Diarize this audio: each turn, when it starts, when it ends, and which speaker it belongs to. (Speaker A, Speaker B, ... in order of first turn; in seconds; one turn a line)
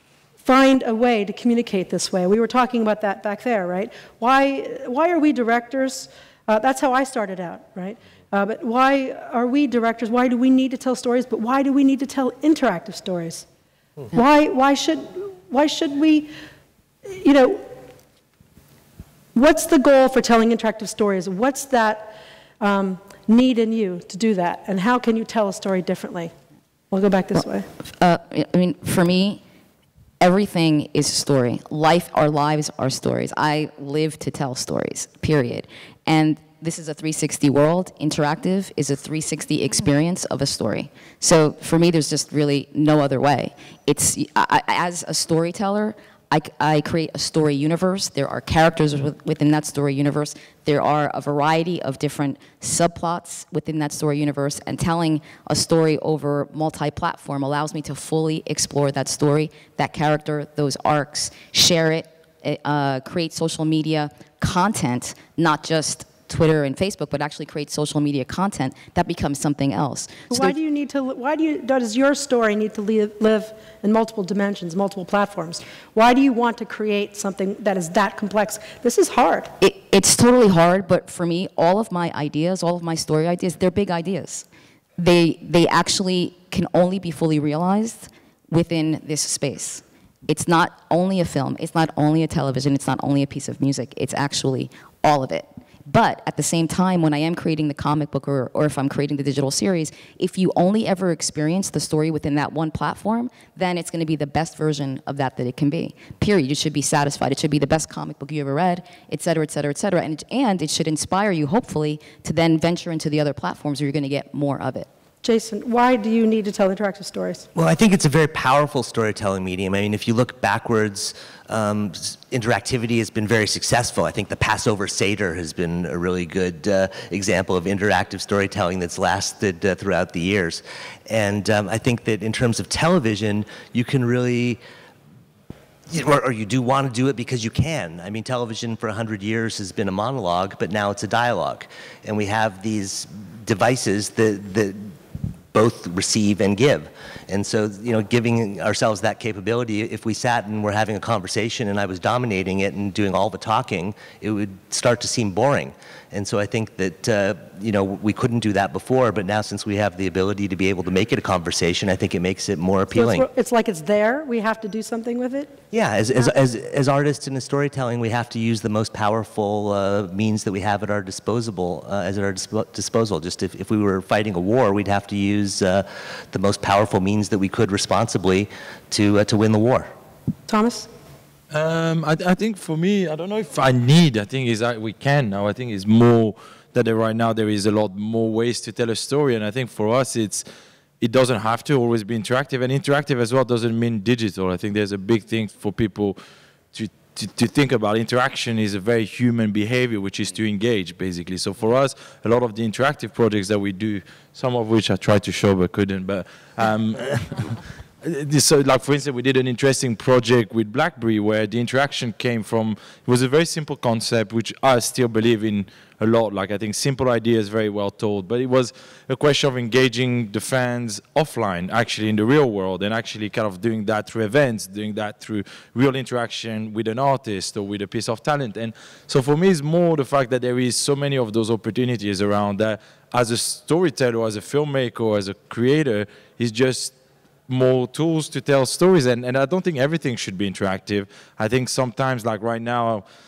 Speaker A: 0.4-13.4
Speaker A: 14.1-16.3
Speaker A: 17.1-17.7
Speaker A: 19.3-26.3
Speaker A: 26.9-27.6
Speaker B: 27.3-29.4
Speaker B: 30.2-70.5
Speaker A: 70.3-79.5
Speaker B: 79.6-84.5
Speaker B: 85.0-114.9
Speaker A: 115.2-117.5
Speaker C: 117.5-134.6
Speaker C: 135.9-144.9
Speaker C: 145.5-163.2
Speaker A: 162.9-165.6
Speaker C: 165.7-179.9
Speaker A: 180.5-180.9
Speaker D: 181.5-190.4
Speaker D: 191.0-196.2
Speaker D: 196.7-236.9
Speaker D: 237.5-243.0